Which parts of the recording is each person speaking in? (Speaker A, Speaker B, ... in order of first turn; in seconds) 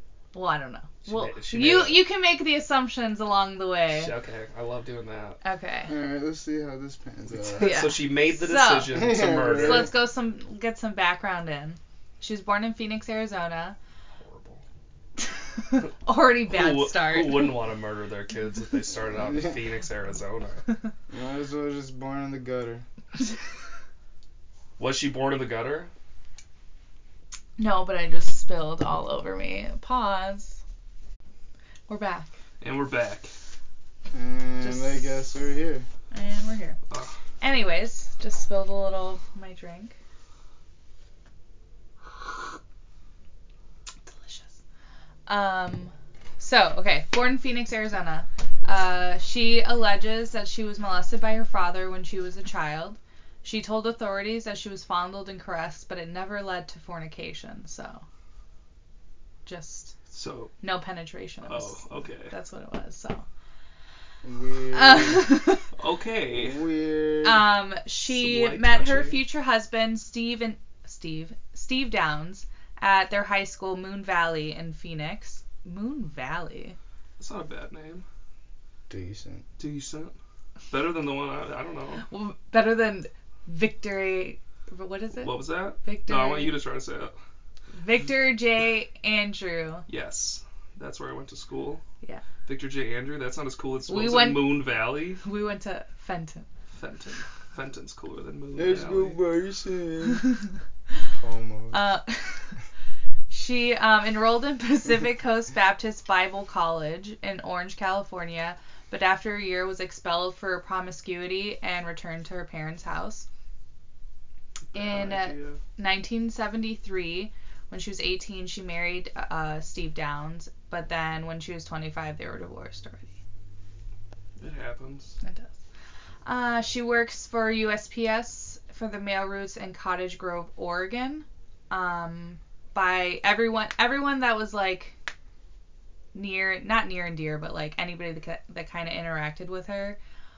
Speaker A: 0.3-4.1, 5.4-5.9, 7.6-13.8, 15.2-17.6, 27.6-30.6, 31.9-32.3, 34.6-35.3, 36.1-36.8, 37.4-39.9, 44.0-44.5, 45.3-58.0, 59.4-59.9, 60.6-63.2, 64.7-65.7, 67.2-76.8, 82.0-86.6, 87.8-89.8, 93.9-94.6, 95.2-96.5, 101.7-102.6, 103.3-113.2, 114.7-123.1, 125.2-125.5, 126.2-134.9, 136.1-140.0
Speaker B: 1.0-2.0, 3.9-5.4, 7.3-9.9, 14.2-14.6, 16.5-20.6, 24.8-25.9, 32.6-33.3, 60.1-60.5, 61.4-62.3, 65.7-66.6, 68.1-69.2, 77.2-78.0, 79.6-80.1, 80.7-82.0, 85.2-87.2, 89.9-91.8, 92.5-95.2, 96.7-99.2, 114.7-115.6, 124.4-125.2
Speaker C: 5.9-7.7, 8.9-9.9, 19.1-19.5, 21.1-22.8, 34.1-35.9, 64.2-65.3, 66.3-67.5, 78.9-79.4, 98.5-100.2, 101.1-101.8